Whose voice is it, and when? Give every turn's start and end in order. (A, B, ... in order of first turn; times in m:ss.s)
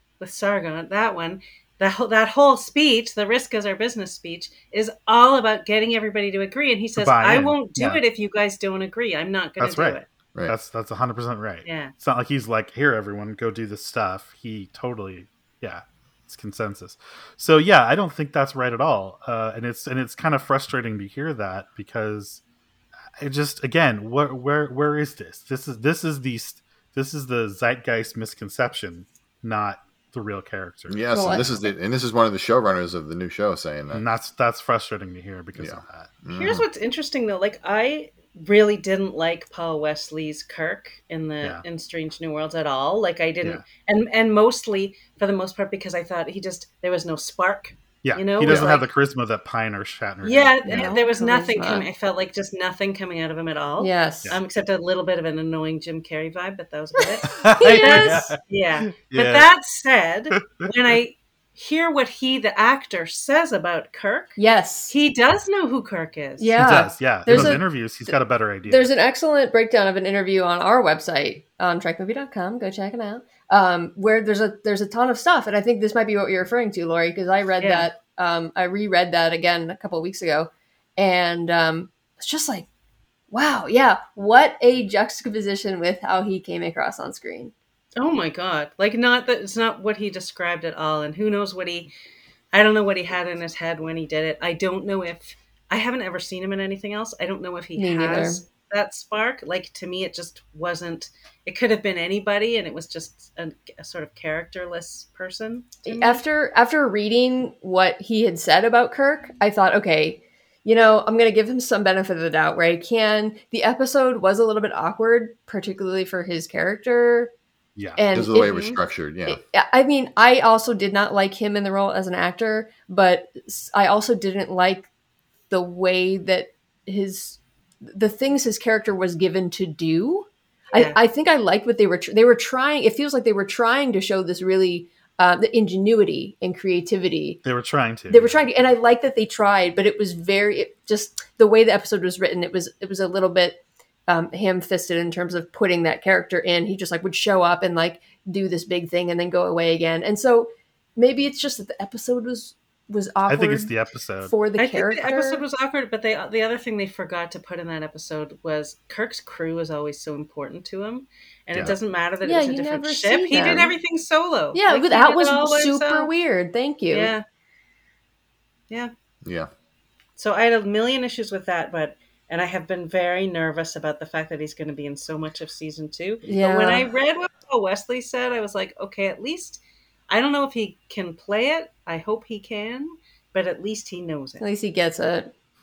0:00.2-0:10.1 A
0:07.0-0:08.0 B
0:09.6-0:22.4 B
0:11.6-0:11.9 A
0:23.2-0:31.5 B
0:30.9-0:34.0 C
0:31.1-0:31.7 D
0:33.9-0:36.1 B
0:35.6-0:36.6 C
0:36.3-0:48.9 A
0:48.0-0:50.9 B
0:48.4-0:48.8 C
0:50.2-1:04.4 A
0:50.6-0:51.9 D
0:53.8-0:54.4 D
0:57.2-0:58.3 D
0:57.3-0:59.5 B
1:00.3-1:00.7 B
1:04.4-1:04.9 D
1:04.9-1:06.5 A
1:06.4-1:08.1 D
1:06.6-1:08.9 B
1:08.7-1:22.7 D
1:17.6-1:17.9 A
1:23.3-1:27.5 D
1:28.0-1:31.9 A
1:32.5-1:46.2 A
1:37.8-1:38.4 D
1:45.9-1:57.3 D
1:57.8-1:58.0 B
1:58.0-1:58.6 D
1:58.1-1:59.4 C
1:58.4-1:58.8 A
1:59.3-2:04.9 D
2:05.5-2:17.4 D
2:17.4-2:18.4 B
2:18.1-2:33.7 D
2:33.3-2:34.3 B
2:34.2-2:35.4 D
2:34.6-2:46.1 A
2:42.2-2:43.8 D
2:44.5-2:47.1 D
2:46.9-2:47.2 A
2:49.2-2:49.5 C
2:50.2-3:04.5 A
2:56.3-2:56.9 D
3:04.4-3:05.3 D